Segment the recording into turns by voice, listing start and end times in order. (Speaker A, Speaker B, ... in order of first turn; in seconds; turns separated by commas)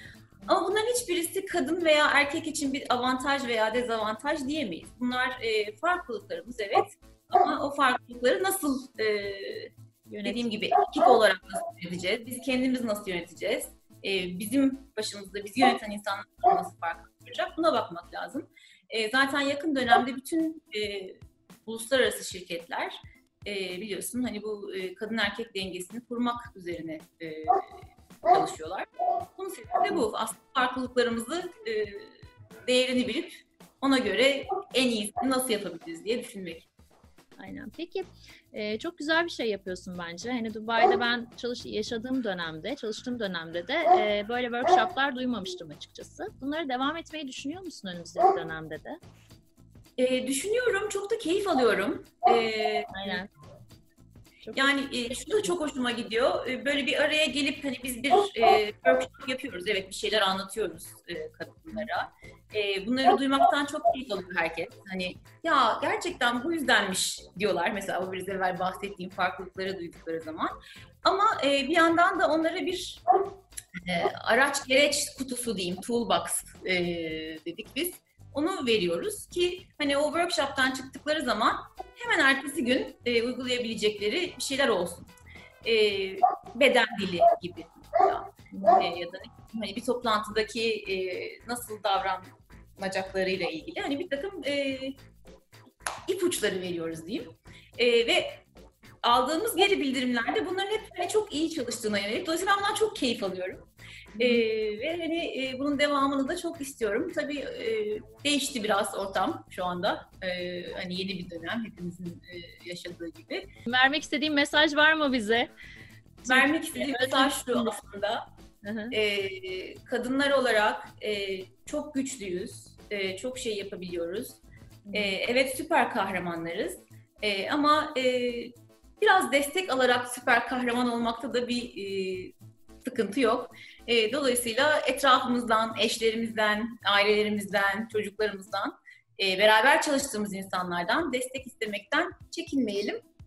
Speaker A: 0.5-9.7, Speaker B: 10.1-10.5, Speaker A: 10.2-27.7, Speaker A: 28.2-36.7, Speaker B: 37.4-49.0, Speaker A: 50.0-53.2, Speaker B: 52.9-53.3, Speaker B: 54.4-55.5, Speaker A: 54.5-73.0, Speaker A: 73.8-85.1, Speaker A: 85.6-94.9, Speaker B: 88.5-88.8, Speaker A: 96.1-98.4, Speaker A: 99.0-113.5, Speaker B: 104.2-104.4, Speaker B: 113.7-115.5, Speaker A: 116.2-118.2, Speaker B: 116.2-117.8, Speaker B: 118.6-119.0, Speaker A: 118.9-124.4, Speaker B: 124.9-125.1, Speaker A: 124.9-143.0